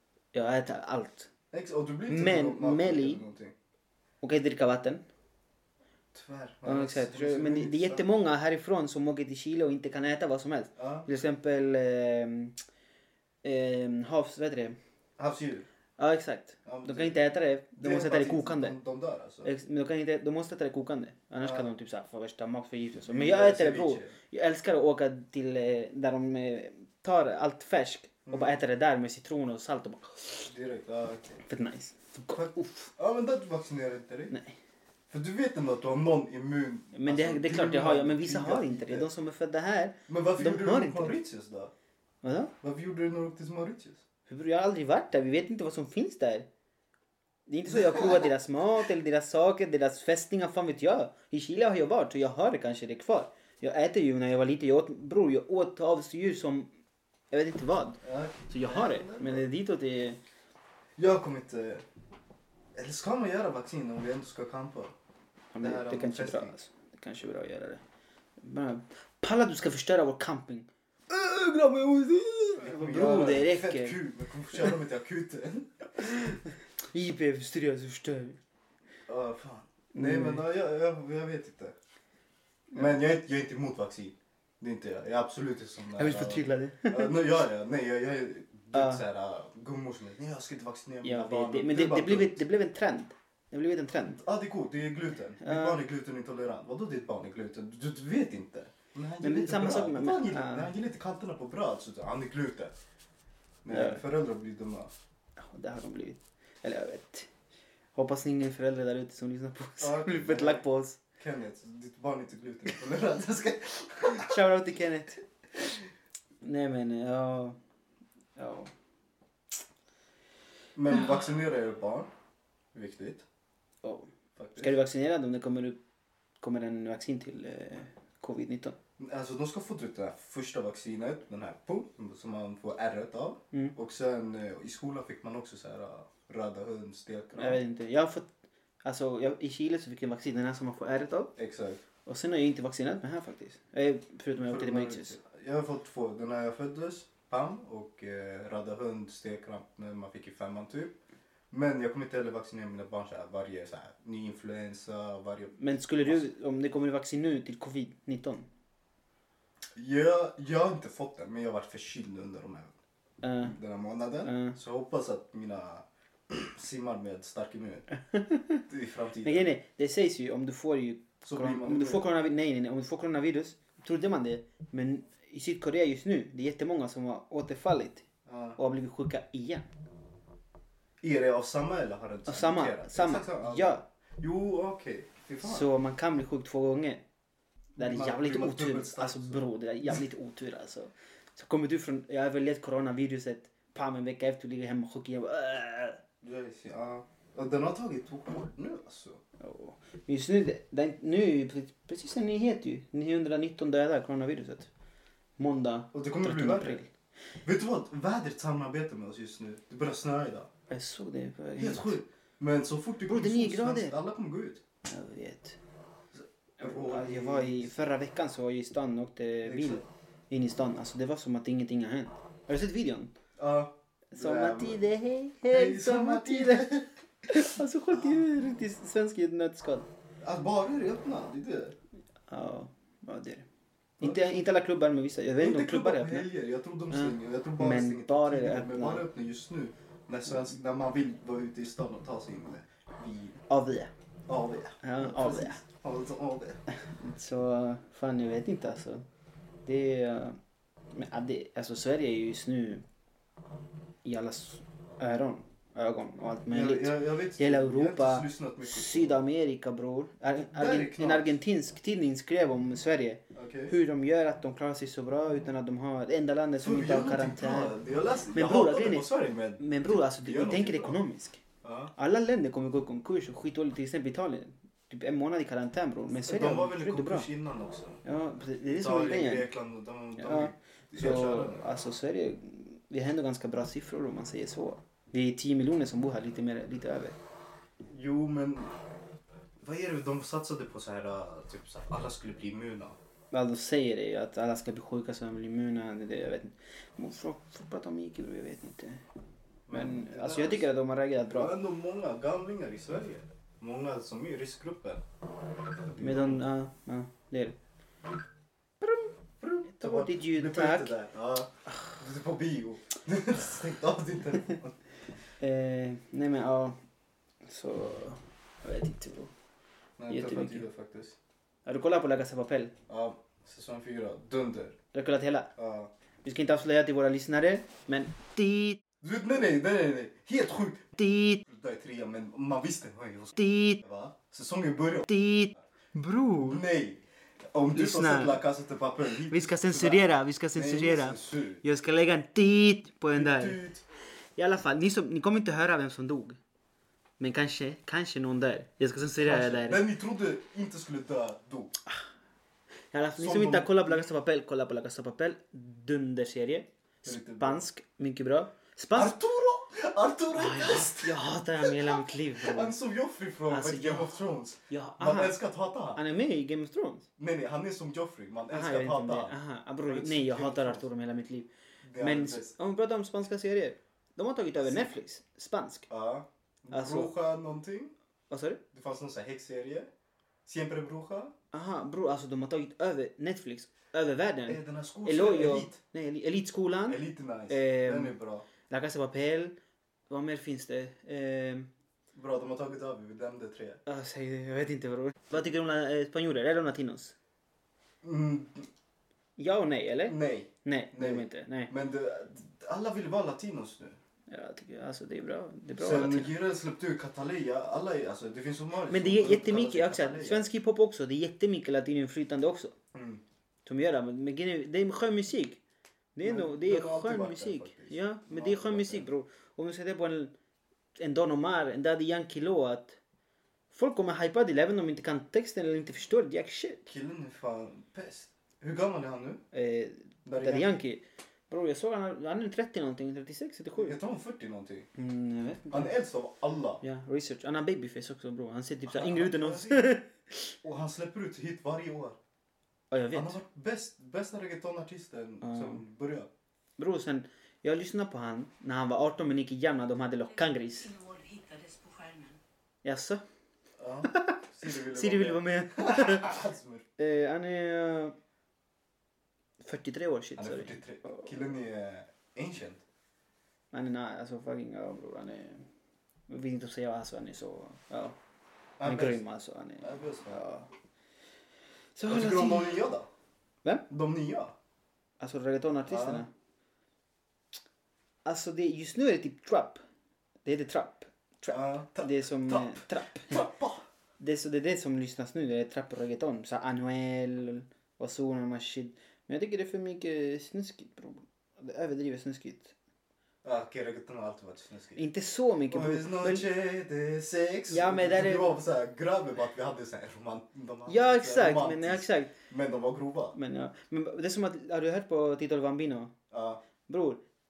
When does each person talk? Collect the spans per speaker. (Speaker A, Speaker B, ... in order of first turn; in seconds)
Speaker A: 0.3-1.3, 2.1-3.2, 4.2-5.0, 6.7-12.6, 13.4-14.8, 16.0-18.8, 19.4-30.5, 31.4-32.9, 34.3-34.6, 36.9-41.2, 42.2-42.5, 44.3-46.5, 47.5-56.7, 57.3-60.2, 65.5-67.8, 68.4-74.0, 76.0-76.4, 76.9-78.4, 79.9-80.5, 86.0-87.2, 88.7-89.0, 91.0-94.2, 95.4-95.8, 99.2-100.7, 103.7-104.0, 105.4-107.3, 108.0-111.0, 114.0-115.2, 116.4-117.6, 118.4-118.7, 123.8-125.8, 126.4-128.8, 137.3-138.3, 138.8-141.3, 142.1-145.2, 155.6-158.5, 163.2-163.6, 164.2-164.6, 168.1-168.6, 169.2-178.1, 178.6-179.7, 182.3-183.8, 185.4-187.0, 187.8-196.0, 199.4-204.7, 205.4-206.9, 210.7-212.0, 213.1-214.0, 214.8-215.6, 216.6-223.1, 224.1-226.7, 227.3-229.9, 232.3-233.5, 234.0-236.3, 236.9-239.1, 243.5-243.9, 244.8-245.6, 246.7-249.1, 249.7-250.4, 250.9-252.8, 254.0-267.8, 268.3-271.4, 271.9-277.3, 278.0-279.5, 280.2-287.2, 293.3-299.0, 299.7-301.5, 306.0-307.6, 309.6-310.9, 315.4-316.8, 317.4-319.3, 320.1-320.7, 321.7-322.7, 324.9-325.5, 326.2-328.8, 331.0-331.4, 333.4-333.8, 335.1-336.6, 337.7-338.4, 339.3-343.6, 344.4-346.4, 347.2-349.8, 352.9-359.1, 360.3-362.8, 363.5-365.4, 366.0-367.1, 368.5-375.9, 376.7-377.1, 378.3-378.6, 381.5-388.2, 388.7-389.6, 390.1-391.7, 393.9-397.1, 399.4-401.7, 404.3-406.3, 408.9-412.7, 413.6-415.6, 416.1-420.3, 421.0-423.0, 423.7-426.8, 429.5-434.0, 435.0-435.9, 436.8-440.5, 442.9-443.4, 445.4-445.8, 446.8-450.9, 452.8-453.2, 454.1-456.4, 457.0-458.2, 459.6-461.3, 463.7-465.7, 466.3-468.2, 468.8-470.7, 472.0-472.8, 475.2-476.3, 478.2-479.8, 480.4-483.4, 484.2-492.8, 495.0-496.5, 497.7-498.6, 500.9-502.3, 503.4-506.1, 506.9-507.2
Speaker B: 1.5-3.5, 6.1-8.1, 10.8-11.1, 15.2-15.7, 16.7-17.2, 17.8-19.5, 21.4-21.7, 23.1-24.1, 28.3-28.6, 30.5-31.4, 32.3-34.4, 35.1-39.1, 40.1-41.7, 42.6-44.0, 47.7-48.3, 58.0-59.5, 61.0-61.9, 62.8-64.9, 65.6-66.5, 72.6-76.1, 79.1-81.8, 82.7-92.4, 94.1-102.7, 103.7-104.9, 109.8-110.7, 111.2-114.4, 120.8-122.1, 122.7-123.2, 124.4-124.7, 129.0-137.6, 141.4-141.8, 144.4-151.0, 151.5-156.2, 159.8-162.8, 163.4-167.9, 168.7-169.4, 171.2-172.1, 178.3-178.6, 181.0-185.7, 187.8-189.4, 196.2-199.2, 205.9-206.8, 207.4-210.5, 211.6-214.6, 216.2-217.7, 219.4-219.8, 223.4-224.9, 225.5-227.4, 227.9-228.2, 230.2-231.8, 234.0-234.4, 235.4-243.4, 244.3-246.6, 256.5-259.2, 260.5-261.3, 263.3-263.8, 266.6-271.0, 271.6-271.9, 276.1-278.0, 278.7-281.6, 287.9-288.7, 289.6-293.0, 299.7-300.7, 301.2-305.0, 305.8-306.4, 309.4-314.8, 320.0-321.2, 322.9-324.8, 325.6-325.9, 329.0-330.9, 331.4-335.1, 336.4-341.6, 343.1-343.8, 349.2-351.7, 353.2-354.1, 357.1-357.6, 358.9-366.0, 367.2-370.9, 371.8-372.6, 375.9-377.9, 378.7-379.9, 380.4-381.3, 384.5-385.8, 386.9-388.5, 392.1-393.8, 398.0-398.7, 400.1-404.0, 405.8-410.5, 412.9-413.2, 416.2-419.1, 426.9-429.4, 430.2-430.8, 433.8-434.9, 435.7-436.8, 438.9-439.9, 440.6-442.2, 443.1-446.3, 453.8-456.9, 460.4-462.8, 468.8-469.2, 469.8-470.4, 472.1-473.1, 473.9-474.6, 475.9-476.2, 481.5-483.9, 493.4-495.0, 495.7-503.4, 506.3-506.6
Speaker C: 450.4-452.4